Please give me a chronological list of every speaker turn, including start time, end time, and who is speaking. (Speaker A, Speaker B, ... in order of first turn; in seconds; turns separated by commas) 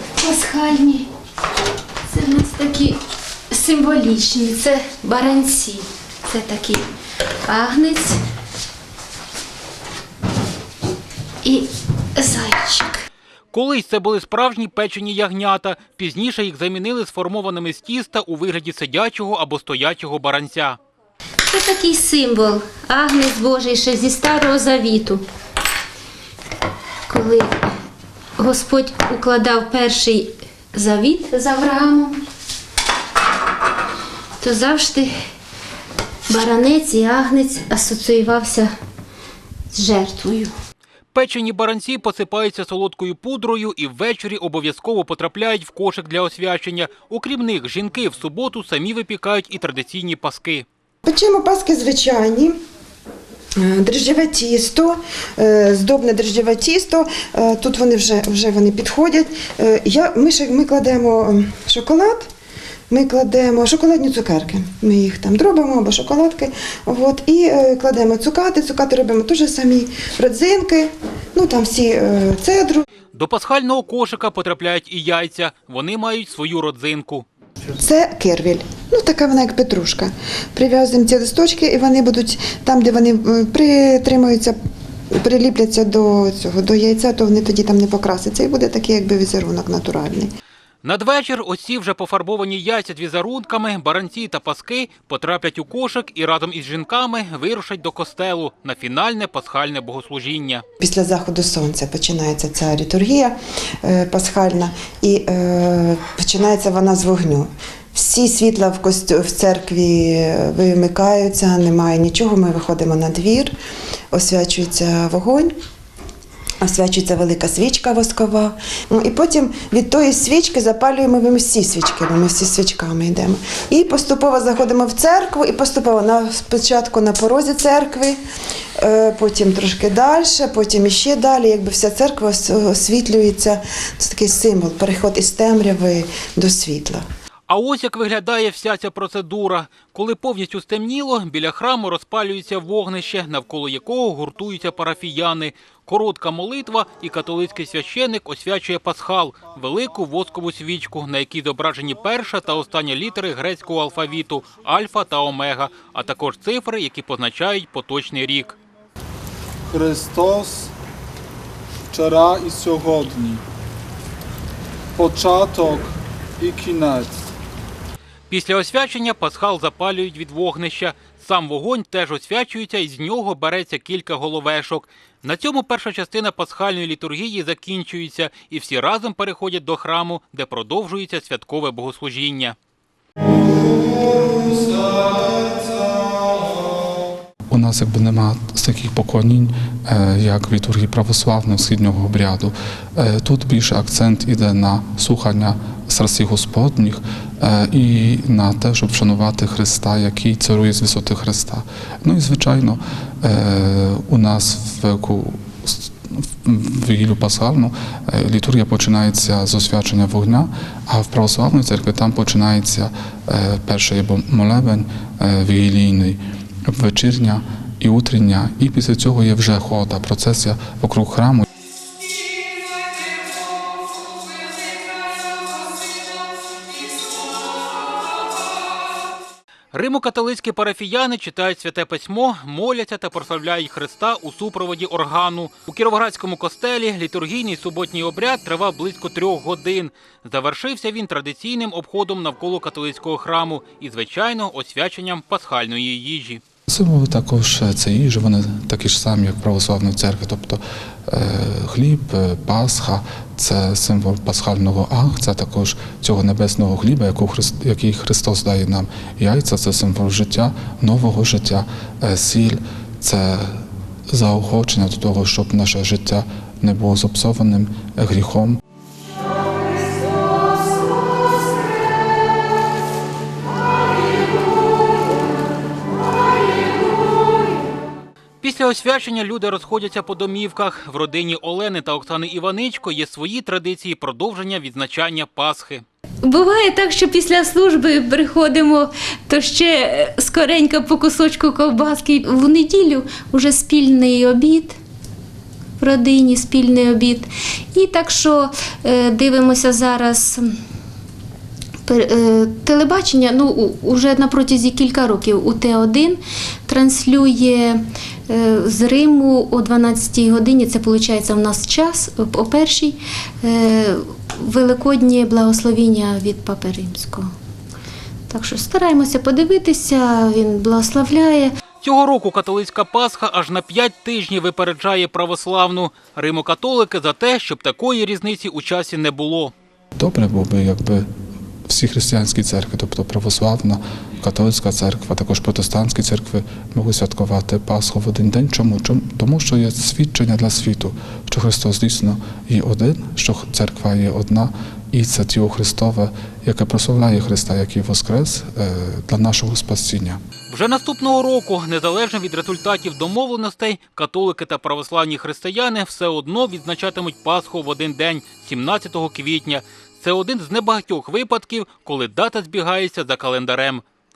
Speaker A: 0.2-1.1, Speaker A: 2.1-3.0, Speaker A: 3.5-6.8, Speaker A: 7.5-8.2, Speaker A: 11.4-13.0, Speaker B: 13.5-20.8, Speaker A: 21.5-25.2, Speaker A: 27.1-27.6, Speaker A: 28.4-32.2, Speaker A: 34.4-35.1, Speaker A: 36.3-38.7, Speaker A: 39.7-40.5, Speaker B: 41.1-50.7, Speaker C: 51.0-52.6, Speaker C: 53.6-62.3, Speaker C: 62.9-72.9, Speaker B: 73.1-77.3, Speaker C: 77.8-84.6, Speaker C: 85.1-90.3, Speaker B: 90.8-100.6, Speaker C: 100.8-113.5, Speaker C: 114.1-115.5, Speaker C: 116.6-128.2, Speaker C: 128.8-137.1, Speaker B: 137.5-158.6, Speaker D: 159.7-160.7, Speaker D: 161.9-163.4, Speaker D: 165.0-167.3, Speaker B: 168.3-182.6, Speaker D: 183.9-184.8, Speaker E: 187.5-221.5, Speaker B: 229.7-246.4, Speaker E: 246.7-268.6, Speaker B: 278.4-285.8, Speaker A: 286.2-294.8, Speaker A: 295.8-300.5, Speaker A: 301.9-317.3, Speaker A: 318.3-321.5, Speaker B: 321.8-329.5, Speaker E: 330.0-331.1, Speaker E: 331.7-350.2, Speaker B: 350.5-363.8